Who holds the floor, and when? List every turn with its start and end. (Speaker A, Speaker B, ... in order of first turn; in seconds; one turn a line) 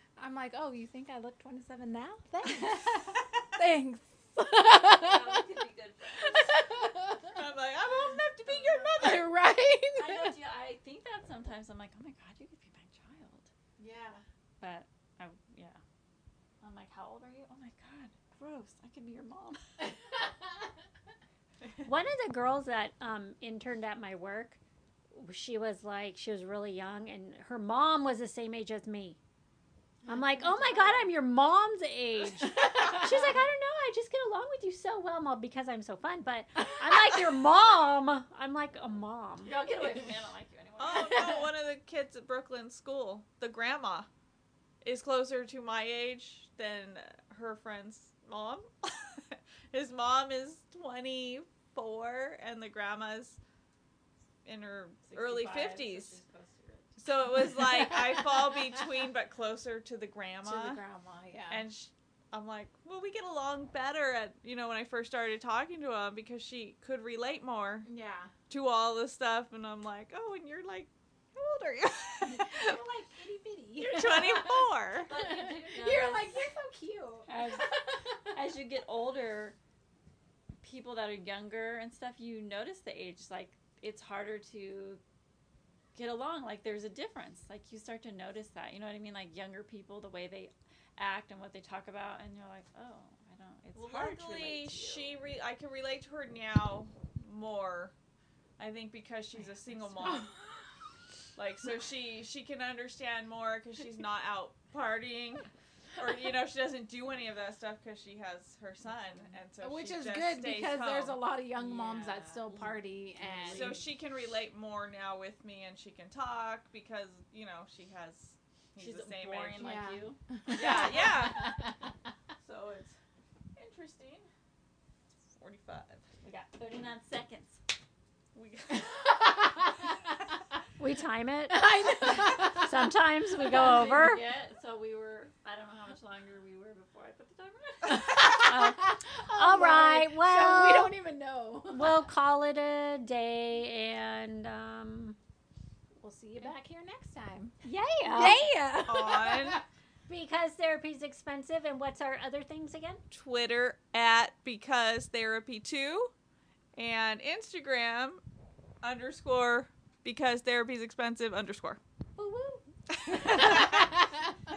Speaker A: 0.2-5.5
Speaker B: 4.8-6.5
Speaker A: 6.2-7.4
Speaker C: 7.3-9.3
Speaker A: 8.9-10.4
Speaker B: 9.9-13.5
Speaker A: 13.8-14.2
Speaker B: 14.6-15.8
Speaker B: 16.6-19.6
Speaker D: 21.8-24.6
Speaker D: 25.1-29.2
Speaker D: 30.1-39.6
Speaker B: 30.6-30.9
Speaker A: 32.6-33.2
Speaker B: 39.5-41.5
Speaker C: 40.8-44.1
Speaker C: 44.8-53.4
Speaker C: 54.5-56.2
Speaker B: 55.1-57.0
Speaker C: 57.0-60.8
Speaker A: 60.4-61.6
Speaker C: 61.5-67.9
Speaker A: 67.8-68.3
Speaker C: 68.5-72.8
Speaker A: 72.2-77.6
Speaker C: 73.8-75.1
Speaker B: 75.1-76.4
Speaker B: 77.3-77.8
Speaker B: 78.3-79.6
Speaker B: 80.6-85.0
Speaker B: 86.0-95.1
Speaker C: 93.8-97.9
Speaker C: 98.6-100.3
Speaker A: 100.1-100.3
Speaker C: 101.4-111.2
Speaker B: 108.9-109.3
Speaker A: 109.6-113.8
Speaker B: 111.6-113.8
Speaker C: 113.5-119.9
Speaker B: 118.8-121.2
Speaker A: 119.6-121.9
Speaker C: 120.5-121.6
Speaker C: 122.4-123.0
Speaker C: 123.5-124.3
Speaker C: 125.3-126.0
Speaker B: 126.2-127.6
Speaker C: 128.3-129.1
Speaker A: 128.8-129.7
Speaker D: 130.8-134.2
Speaker A: 131.5-132.9
Speaker B: 133.5-138.1
Speaker D: 137.9-140.9
Speaker A: 138.2-142.0
Speaker D: 141.7-145.2
Speaker A: 146.0-147.5
Speaker D: 147.6-148.4
Speaker A: 148.1-149.6
Speaker C: 148.9-149.6
Speaker D: 150.1-153.0
Speaker C: 153.1-156.1
Speaker C: 156.8-158.2
Speaker C: 158.8-161.8
Speaker D: 162.2-162.6
Speaker C: 162.9-164.0
Speaker A: 163.3-164.0